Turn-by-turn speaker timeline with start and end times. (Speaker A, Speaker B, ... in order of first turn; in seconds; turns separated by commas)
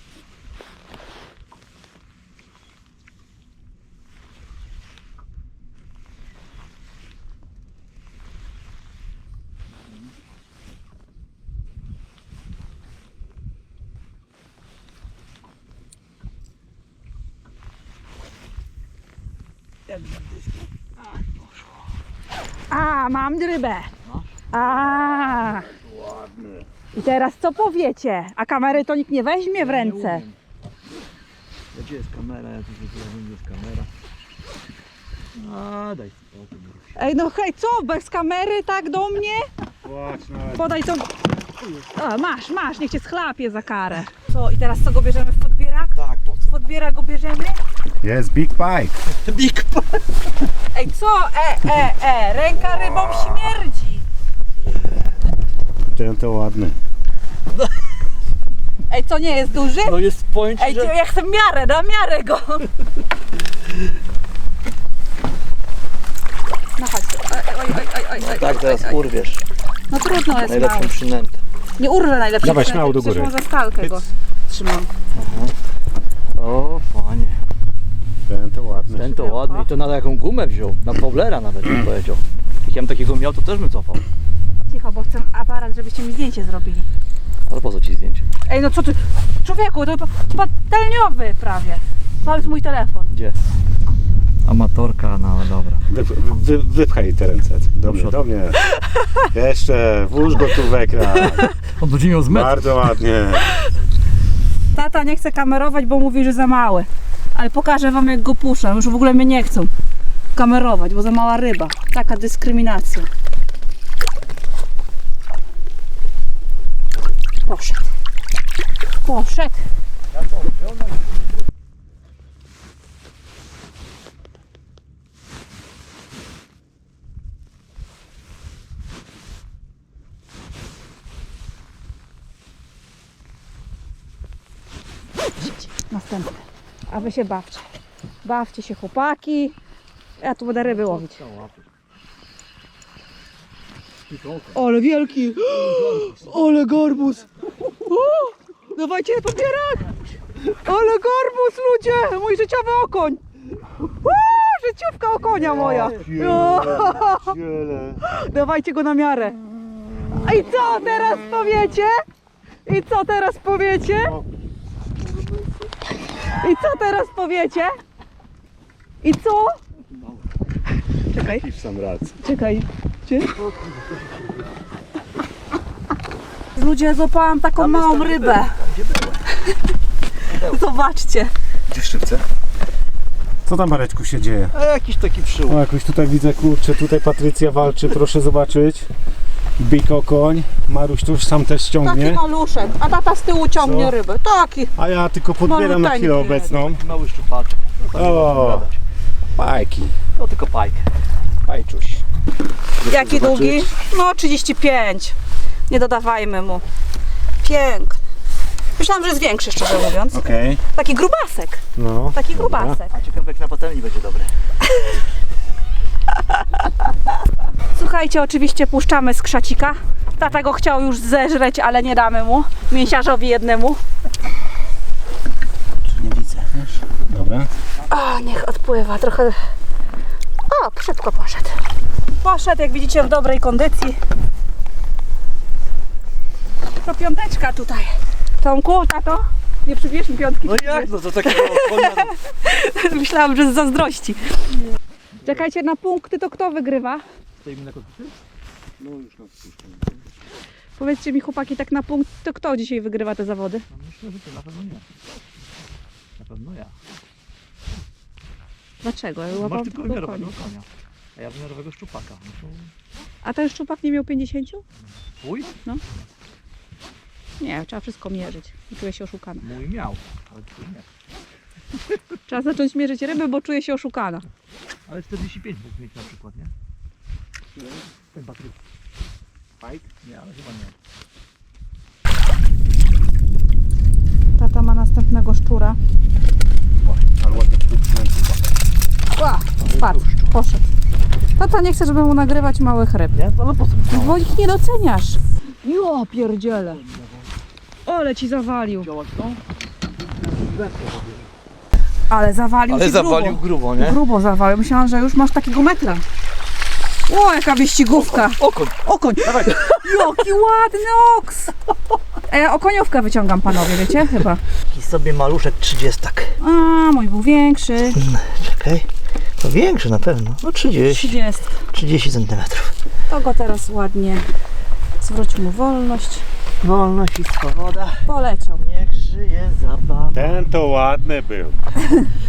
Speaker A: 19.9-20.2, Speaker A: 21.2-21.7, Speaker B: 22.7-23.9, Speaker A: 24.0-24.3, Speaker B: 24.5-25.7, Speaker A: 26.1-26.5, Speaker B: 26.9-30.2, Speaker A: 29.5-30.3, Speaker A: 31.7-33.9, Speaker A: 35.3-37.0, Speaker B: 37.0-39.5, Speaker C: 39.8-40.7, Speaker B: 40.5-41.1, Speaker B: 41.9-45.9, Speaker A: 46.0-46.4, Speaker B: 46.5-47.6, Speaker C: 48.0-49.0, Speaker A: 49.2-50.0, Speaker B: 50.7-54.0, Speaker C: 55.9-56.8, Speaker B: 58.9-60.0, Speaker A: 59.8-60.9, Speaker B: 60.5-62.7, Speaker B: 66.8-69.0, Speaker A: 68.2-69.4, Speaker B: 69.9-70.9, Speaker A: 70.3-71.4, Speaker B: 71.8-74.9, Speaker C: 72.4-74.0, Speaker A: 75.1-75.5, Speaker A: 76.3-77.4, Speaker C: 78.3-79.1, Speaker A: 79.0-84.0, Speaker B: 79.0-79.7, Speaker B: 84.7-86.8, Speaker A: 87.5-88.3, Speaker B: 88.5-93.1, Speaker A: 94.4-95.8, Speaker C: 95.9-98.6, Speaker A: 97.9-98.1, Speaker C: 99.2-101.5, Speaker A: 101.2-102.7, Speaker C: 102.3-103.5, Speaker B: 104.7-109.7, Speaker B: 110.3-113.1, Speaker B: 117.4-117.9, Speaker B: 119.0-119.6, Speaker A: 120.1-121.4, Speaker B: 135.4-137.7, Speaker B: 138.2-139.6, Speaker B: 140.2-141.2, Speaker A: 140.6-141.7, Speaker A: 144.1-144.6, Speaker B: 144.5-147.3, Speaker A: 145.8-146.2, Speaker B: 147.8-149.9, Speaker B: 150.5-153.2, Speaker B: 153.9-157.3, Speaker C: 155.4-158.0, Speaker A: 155.5-156.2, Speaker B: 158.0-159.4, Speaker B: 160.2-162.0, Speaker B: 162.6-164.2, Speaker C: 164.0-164.3, Speaker B: 166.3-167.7, Speaker B: 169.0-169.6, Speaker B: 171.1-171.4, Speaker C: 171.1-172.2, Speaker B: 172.2-173.3, Speaker A: 173.2-174.5, Speaker B: 176.6-178.6, Speaker A: 177.6-179.2, Speaker B: 179.4-179.7, Speaker A: 180.3-180.6, Speaker B: 180.3-181.3, Speaker C: 181.7-182.2, Speaker C: 183.4-184.5, Speaker A: 184.5-185.6, Speaker C: 185.5-188.9, Speaker C: 189.6-192.2, Speaker B: 191.8-194.7, Speaker C: 193.6-193.9, Speaker C: 194.8-196.8, Speaker B: 195.4-196.6, Speaker A: 196.5-198.8, Speaker C: 197.9-198.7, Speaker C: 199.4-200.0, Speaker A: 200.2-200.8, Speaker C: 201.4-202.0, Speaker A: 202.8-203.7, Speaker B: 202.8-205.2, Speaker B: 205.7-206.6, Speaker B: 207.4-208.0, Speaker B: 208.8-211.6, Speaker C: 210.1-210.6, Speaker C: 211.8-212.8, Speaker B: 212.1-212.9, Speaker A: 212.9-214.3, Speaker B: 217.7-223.8, Speaker C: 225.9-227.5, Speaker B: 227.9-229.3, Speaker B: 230.5-231.6, Speaker B: 232.2-234.0, Speaker B: 236.8-244.2, Speaker A: 240.4-242.1, Speaker A: 245.2-245.4, Speaker B: 245.2-247.0, Speaker A: 247.4-248.2, Speaker C: 248.8-250.0, Speaker B: 250.8-253.6, Speaker A: 253.7-254.8, Speaker A: 256.2-256.7, Speaker B: 258.8-260.4, Speaker A: 259.4-262.7, Speaker B: 263.2-264.6, Speaker A: 265.2-266.1, Speaker B: 267.4-269.4, Speaker A: 269.4-270.9, Speaker B: 272.3-274.2, Speaker A: 274.9-276.5, Speaker C: 277.6-277.8, Speaker A: 278.1-278.6, Speaker C: 279.6-279.9, Speaker A: 280.0-280.7, Speaker B: 284.4-285.8, Speaker C: 287.2-288.4, Speaker B: 289.1-290.6, Speaker A: 289.6-290.2, Speaker B: 291.4-293.2, Speaker A: 293.1-294.3, Speaker B: 293.9-296.8, Speaker A: 296.6-297.3, Speaker B: 297.9-298.9, Speaker A: 298.8-299.4, Speaker A: 300.2-301.3, Speaker B: 302.1-306.0, Speaker A: 302.7-304.0, Speaker B: 307.1-311.5, Speaker A: 307.9-310.1, Speaker C: 309.3-309.6, Speaker B: 312.3-314.4, Speaker A: 314.7-316.3, Speaker B: 316.4-318.0, Speaker A: 317.9-318.9, Speaker A: 319.4-321.2, Speaker B: 320.9-321.6, Speaker A: 321.7-322.7, Speaker B: 323.1-324.2, Speaker B: 325.0-326.2, Speaker A: 326.6-328.1, Speaker B: 328.1-328.6, Speaker A: 328.6-330.5, Speaker C: 330.1-331.6